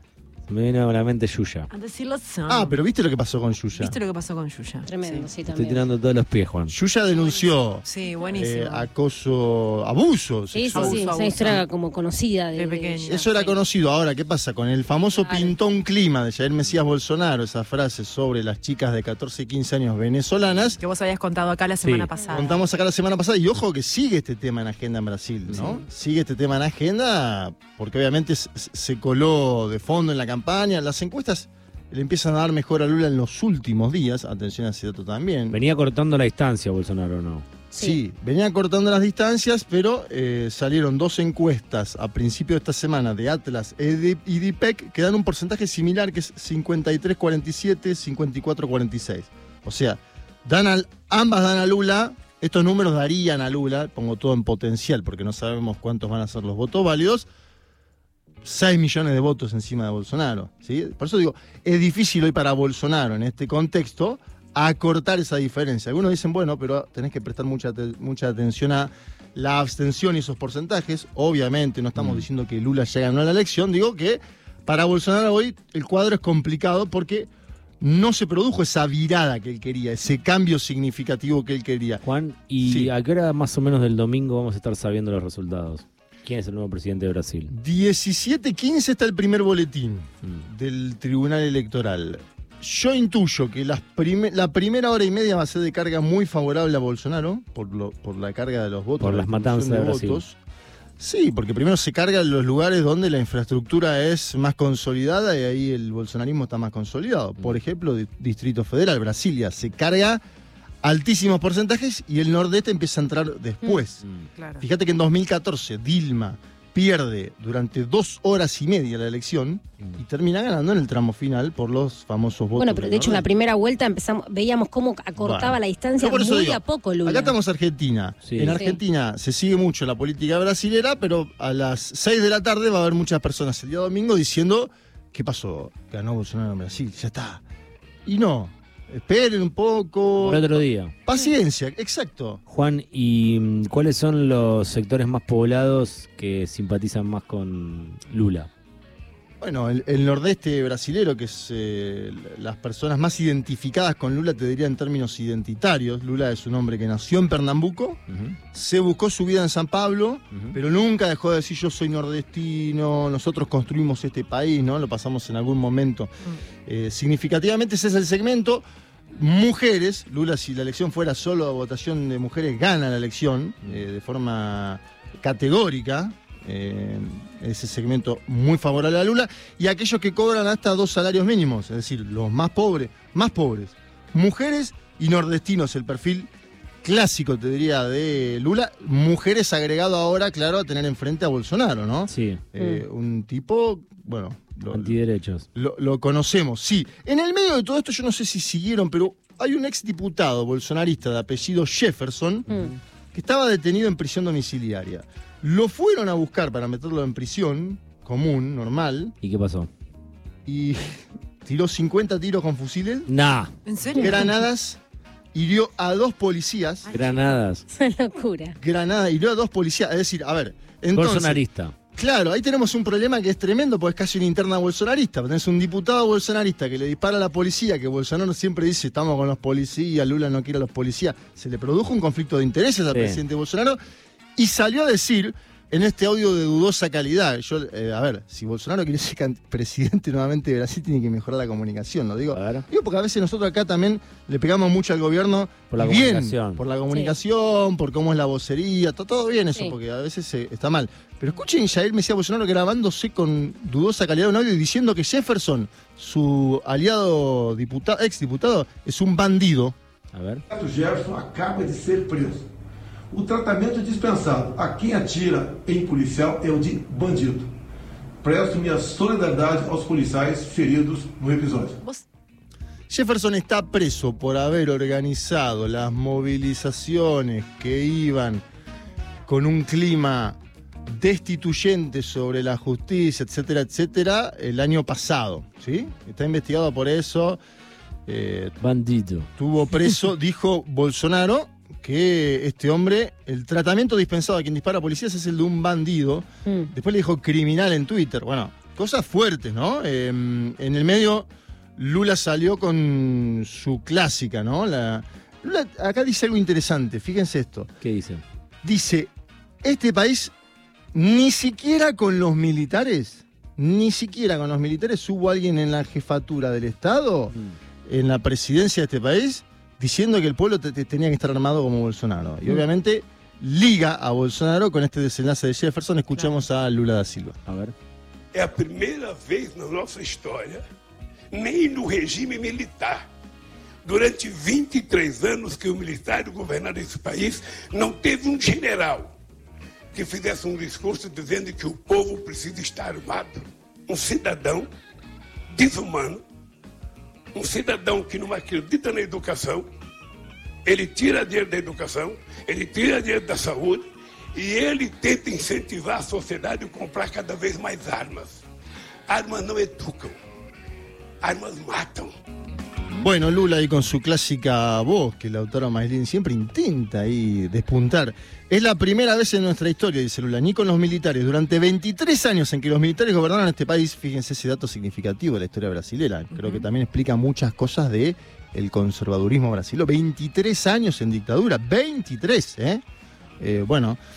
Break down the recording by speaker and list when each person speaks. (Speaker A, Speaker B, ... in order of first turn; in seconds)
Speaker A: 0.5-1.7, 5.4-6.8, 21.8-22.1, 25.5-25.8, 35.5-37.5, 72.0-72.2, 82.0-87.5, 99.0-100.2, 114.0-114.2, 128.2-128.6, 140.2-140.9, 142.5-148.5, 158.1-158.4, 160.3-160.6, 192.1-192.5, 194.7-195.5, 209.2-209.7, 213.1-213.5, 216.9-217.6, 220.9-221.7, 232.9-233.2, 242.3-242.7, 245.7-246.7, 260.1-260.4, 288.6-289.3, 307.8-308.2, 327.5-327.8
Speaker B: 1.7-2.8, 3.8-5.3, 7.8-8.9, 10.7-11.7, 12.6-13.6, 20.8-22.6, 114.4-114.7, 213.7-214.4, 216.9-217.2, 376.3-376.7
Speaker C: 2.5-4.0, 6.7-11.0, 13.1-20.8, 22.3-35.6, 37.8-57.3, 58.4-77.3, 77.8-82.0, 82.6-82.9, 87.5-100.4, 101.0-110.2, 110.8-114.0, 114.6-123.3, 125.2-137.4, 138.1-142.4, 149.4-158.0, 158.5-166.1, 166.7-186.3, 186.8-195.0, 195.6-202.5, 203.1-209.1, 210.5-213.1, 213.9-214.8, 215.3-216.9, 218.6-221.4, 221.9-233.8, 234.4-259.8, 272.9-278.4, 279.3-287.4, 288.1-288.6, 289.4-307.7, 308.6-309.1, 309.6-310.3, 310.9-317.3, 317.9-327.4, 363.0-382.8, 383.4-384.0
Speaker D: 4.9-5.9, 10.5-13.2, 15.3-15.5, 37.7-38.0, 122.5-127.3, 128.5-128.8, 192.6-192.8, 217.7-218.6, 246.9-247.2, 296.5-296.7
Speaker E: 260.5-262.4, 263.1-267.5, 268.2-271.8
Speaker F: 328.3-330.6, 331.3-333.1, 333.9-339.1, 339.9-344.7, 345.6-346.2, 347.4-349.7, 350.7-358.4, 359.1-360.1, 361.2-362.1